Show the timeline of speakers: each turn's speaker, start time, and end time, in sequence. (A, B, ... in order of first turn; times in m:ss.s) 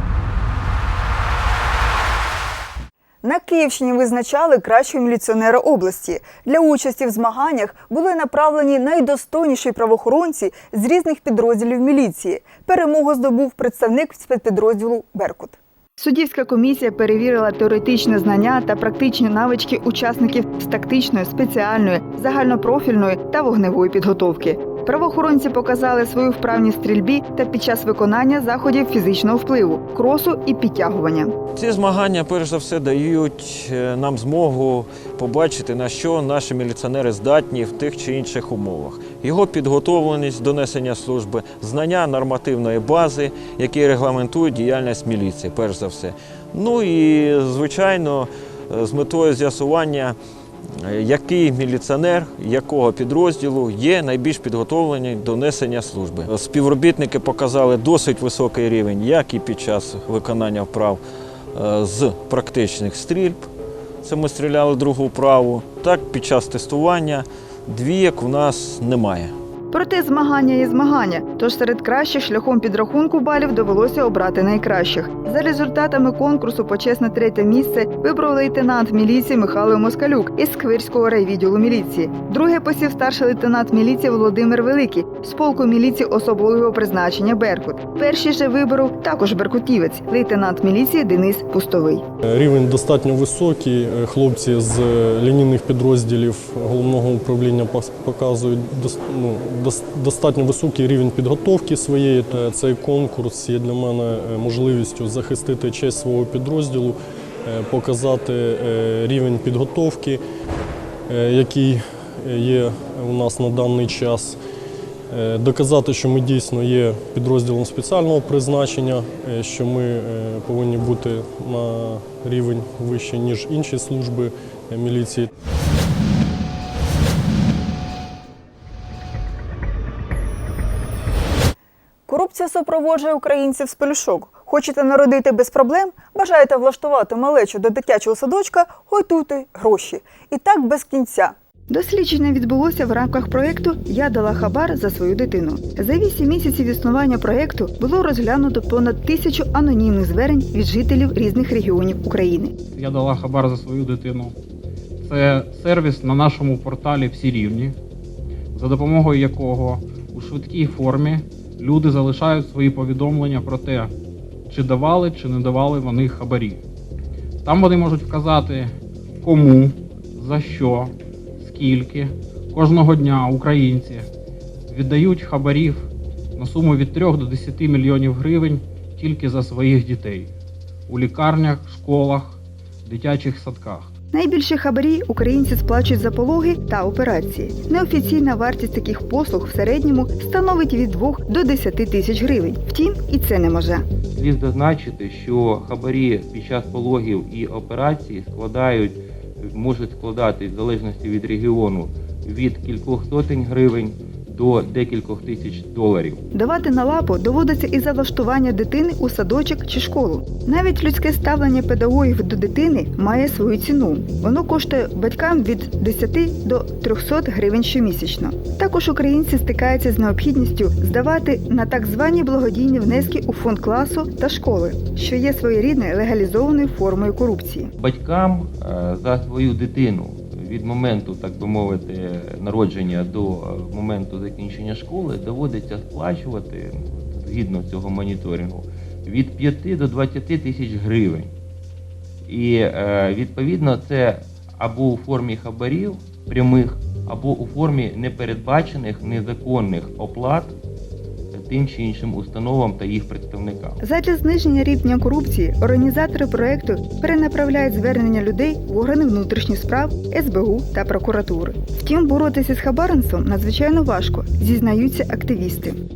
0:03.2-0:31.3 A
0:31.6-0:50.2 B
0:50.8-1:01.0 B
1:01.5-1:03.4 B
1:04.0-1:09.3 B
1:09.7-1:32.0 A
1:32.2-1:50.2 C
1:51.1-1:54.4 C
1:55.1-2:05.3 C
2:12.1-2:32.5 A
2:32.7-2:34.3 D
2:35.0-2:37.7 D
2:38.5-2:43.9 D
2:44.5-2:46.6 D
2:47.4-2:54.1 D
2:54.7-3:00.3 D
3:00.9-3:03.9 D
3:04.1-3:13.8 A
3:14.1-3:26.2 E
3:26.3-3:47.7 A
3:47.8-4:01.3 E
4:02.2-4:10.5 E
4:11.3-4:13.8 E
4:13.8-4:25.8 A